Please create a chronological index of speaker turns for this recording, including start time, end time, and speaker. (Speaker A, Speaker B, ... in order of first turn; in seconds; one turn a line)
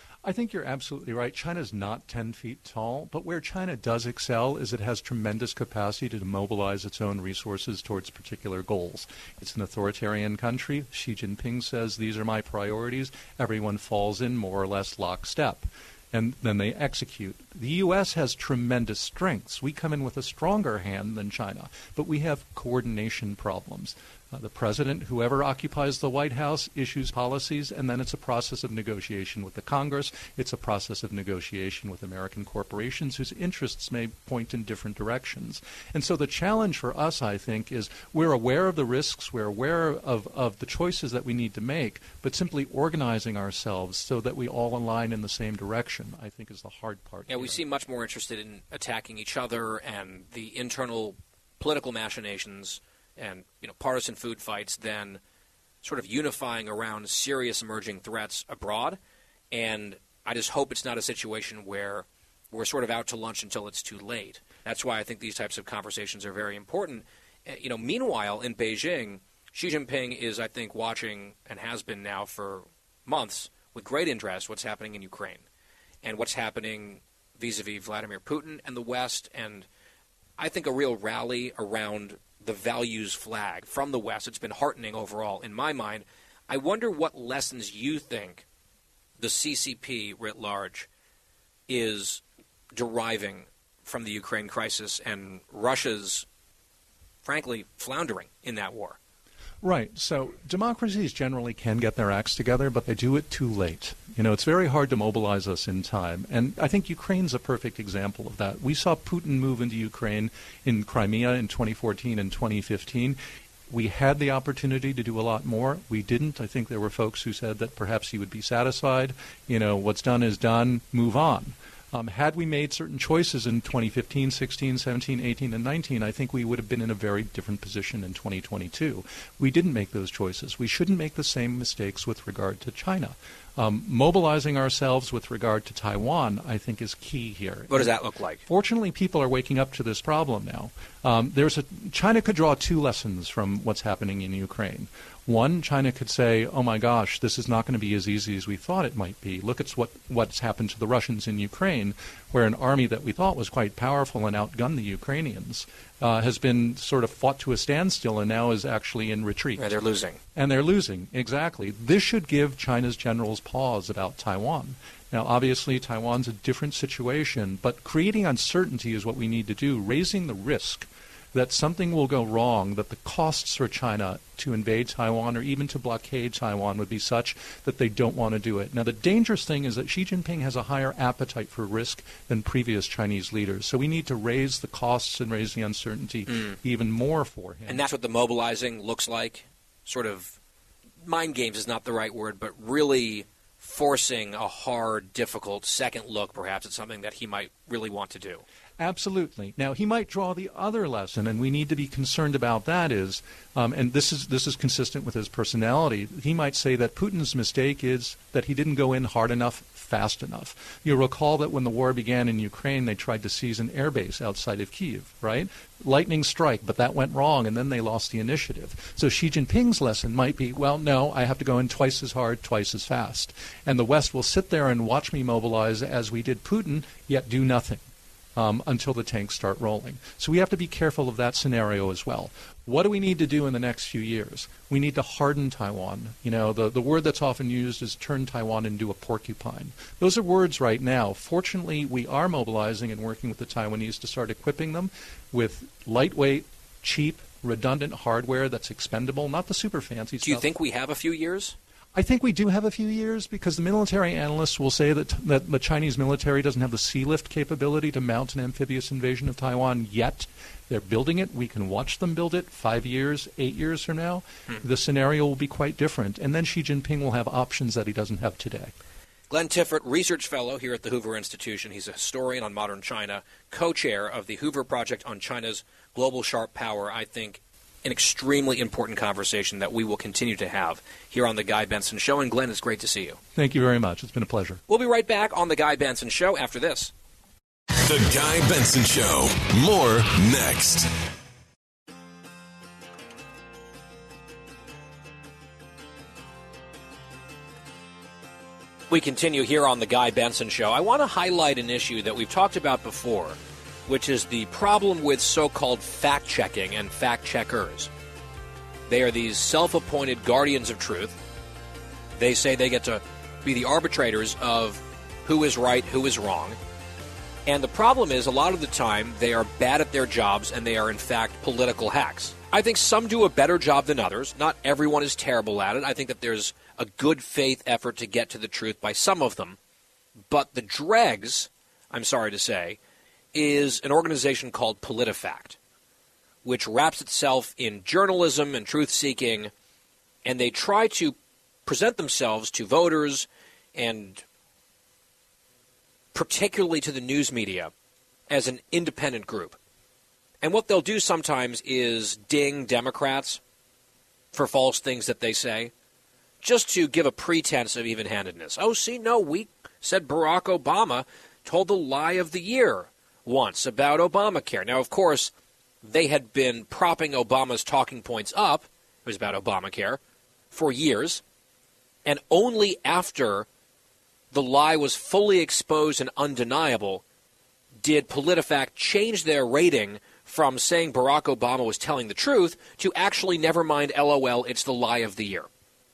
Speaker A: 0.2-47.6
Speaker B: 47.3-55.2
Speaker B: 55.8-59.0
Speaker B: 59.5-75.5
Speaker B: 76.0-79.7
Speaker B: 80.4-88.4
Speaker B: 89.2-90.9
Speaker B: 91.7-92.2
Speaker B: 92.7-96.2
Speaker B: 97.2-99.0
Speaker A: 99.6-113.2
Speaker A: 113.7-159.7
Speaker B: 137.7-138.4
Speaker B: 159.6-160.2
Speaker A: 160.3-187.8
Speaker B: 186.3-186.5
Speaker B: 187.7-190.4
Speaker B: 191.0-198.4
Speaker A: 198.8-227.8
Speaker A: 228.4-250.5
Speaker B: 250.2-251.6
Speaker A: 251.9-268.7
Speaker B: 269.3-283.2
Speaker A: 283.3-284.6
Speaker B: 284.7-286.9
Speaker C: 287.8-290.9
Speaker B: 298.9-307.9
Speaker B: 308.9-311.2
Speaker B: 312.2-316.6
Speaker B: 317.4-329.6
Speaker B: 330.3-332.8
Speaker B: 333.3-335.6
Speaker B: 336.4-339.5
Speaker B: 340.2-344.2
Speaker B: 346.1-347.7
Speaker B: 348.3-349.6
Speaker B: 350.4-353.4
Speaker B: 354.3-355.7
Speaker B: 356.4-365.3
Speaker B: 365.8-370.0
Speaker B: 370.5-371.2
Speaker B: 372.0-373.5
Speaker B: 374.3-377.0
Speaker B: 377.8-385.5